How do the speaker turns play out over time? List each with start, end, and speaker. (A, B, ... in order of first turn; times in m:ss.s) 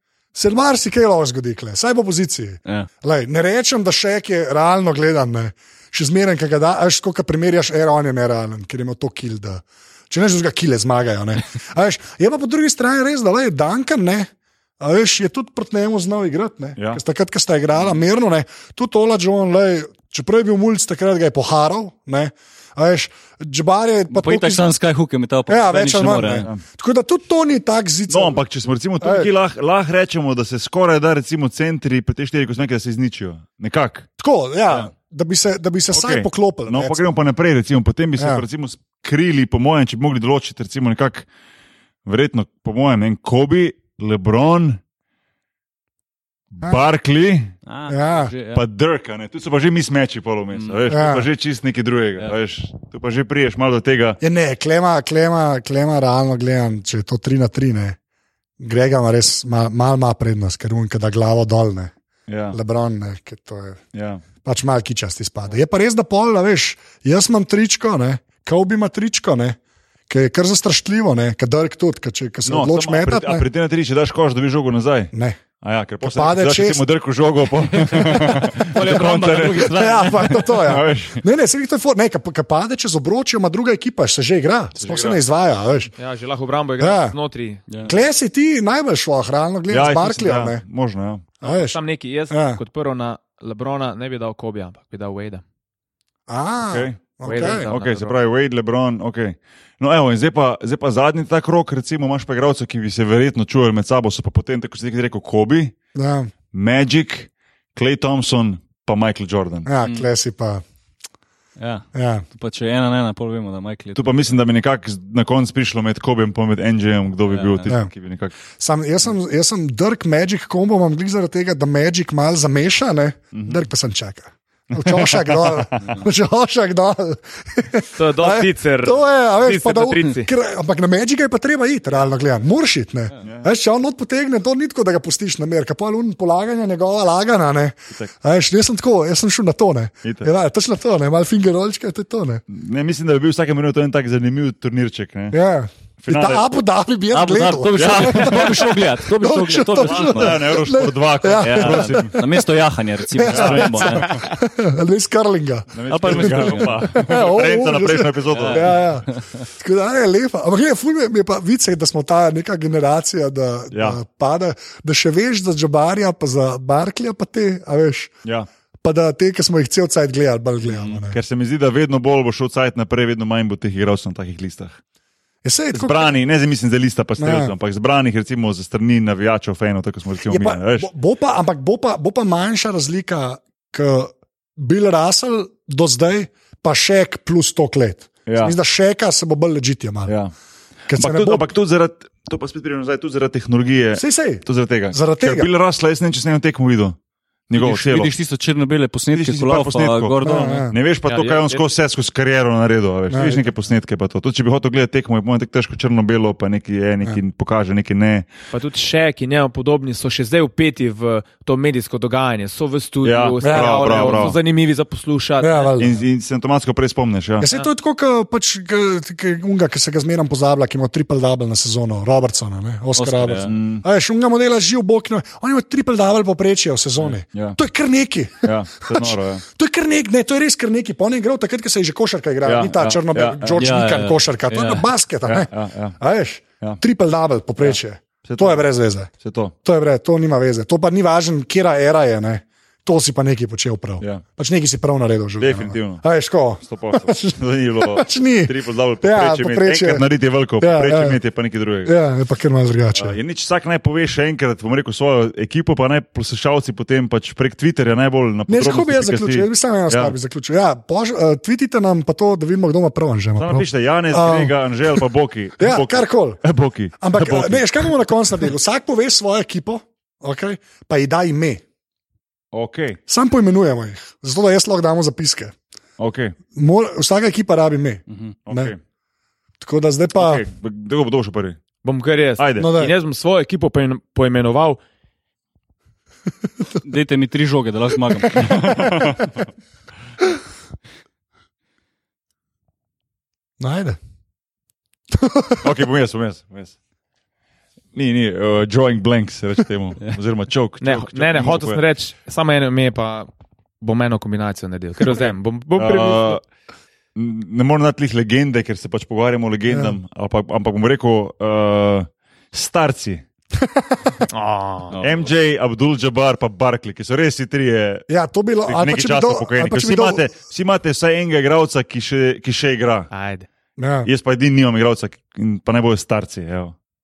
0:00.3-0:24.7 A
0:24.1-0:26.5 B
0:25.5-0:28.4 A
0:28.1-0:34.1 C
0:29.0-0:29.3 A
0:34.2-0:37.0 A
0:35.9-0:41.3 C
0:38.2-0:38.4 A
0:42.0-0:44.8 C
0:46.6-0:47.5 C
0:47.7-0:48.6 B
0:47.9-0:48.3 A
0:48.5-0:54.2 C
0:50.9-0:51.3 A
0:54.2-0:58.0 A
0:58.6-1:01.9 A
1:02.3-1:02.6 C
1:02.5-1:03.8 A
1:03.9-1:04.2 C
1:04.4-1:09.6 A
1:10.1-1:13.5 A
1:12.5-1:21.2 C
1:15.1-1:15.4 A
1:16.0-1:16.8 A
1:17.8-1:20.5 B
1:19.6-1:25.9 A
1:24.8-1:25.2 C
1:26.0-1:27.6 D
1:26.8-1:27.2 A
1:27.7-1:27.9 B
1:27.8-1:30.6 A
1:29.7-1:31.2 C
1:31.4-1:31.8 A
1:31.4-1:35.4 D
1:32.3-1:32.6 A
1:36.3-1:37.7 A
1:36.6-1:45.8 C
1:37.2-1:38.2 D
1:46.0-1:46.3 A
1:46.5-1:49.7 C
1:49.7-1:50.6 A
1:49.8-1:50.1 B
1:51.6-1:54.3 B
1:52.0-1:52.2 A
1:54.0-1:58.4 C
1:57.3-1:57.7 B
1:58.6-2:22.4 A
2:03.3-2:03.6 C
2:04.8-2:05.9 C
2:08.0-2:10.3 D
2:13.2-2:13.5 C
2:20.0-2:20.3 C
2:22.5-2:25.4 C
2:25.3-2:32.4 A
2:26.0-2:26.5 C
2:27.1-2:30.4 B
2:27.8-2:28.5 C
2:29.8-2:32.2 C
2:31.4-2:34.3 B
2:33.2-2:39.1 A
2:33.2-2:34.2 C
2:35.7-2:38.8 C
2:35.9-2:36.8 B
2:38.4-2:39.2 B
2:39.6-2:48.1 A
2:43.7-2:44.0 C
2:48.8-2:51.2 A
2:50.8-2:54.8 C
2:55.4-2:56.1 A
2:55.8-3:00.9 C
2:57.2-2:57.5 A
3:00.2-3:10.2 A
3:08.3-3:08.6 C
3:10.1-3:10.3 C
3:10.9-3:11.5 A
3:10.9-3:17.0 C
3:14.0-3:15.5 A
3:17.5-3:18.1 C
3:17.6-3:20.7 B
3:19.1-3:20.2 C
3:20.2-3:20.8 A
3:20.7-3:28.3 C
3:21.0-3:21.7 D
3:23.1-3:23.4 A
3:28.5-3:35.8 D
3:33.0-3:34.4 C
3:33.4-3:34.3 A
3:35.4-3:35.9 A
3:35.8-3:37.5 C
3:37.4-3:59.1 A
3:43.0-3:43.5 B
3:43.4-3:43.8 C
3:47.0-3:47.6 C
3:48.4-3:49.4 C
3:52.4-3:53.6 C
3:53.6-3:54.8 B
3:55.3-3:56.0 C
3:57.6-3:58.6 C
3:59.2-3:59.5 C
3:59.6-4:10.0 A
4:05.4-4:06.0 C
4:06.7-4:12.0 C
4:10.6-4:11.2 A
4:11.8-4:13.2 A
4:13.0-4:20.2 C
4:18.5-4:25.0 A
4:23.4-4:27.9 C
4:25.6-4:26.4 A
4:27.0-4:31.6 A
4:32.5-4:33.0 C
4:33.1-4:35.5 A
4:36.0-4:36.4 C
4:36.5-4:38.7 A
4:38.1-4:38.3 B
4:38.5-4:38.8 C
4:39.6-4:40.4 A
4:40.2-4:41.6 C
4:41.8-4:44.8 D
4:42.4-4:42.7 C
4:42.6-4:42.9 A
4:46.8-4:48.6 B
4:48.3-4:49.4 C
4:53.6-4:54.0 A
4:55.1-4:55.6 A
4:55.6-4:56.8 C
4:57.9-5:01.8 C
5:00.8-5:03.3 D
5:03.8-5:06.4 D
5:05.8-5:06.4 C
5:07.2-5:13.2 C
5:09.7-5:10.0 A
5:13.6-5:14.2 A
5:14.3-5:15.0 D
5:15.0-5:18.1 C
5:18.1-5:20.2 A
5:18.7-5:23.1 C
5:23.1-5:23.5 D
5:23.8-5:24.1 A
5:24.0-5:26.8 C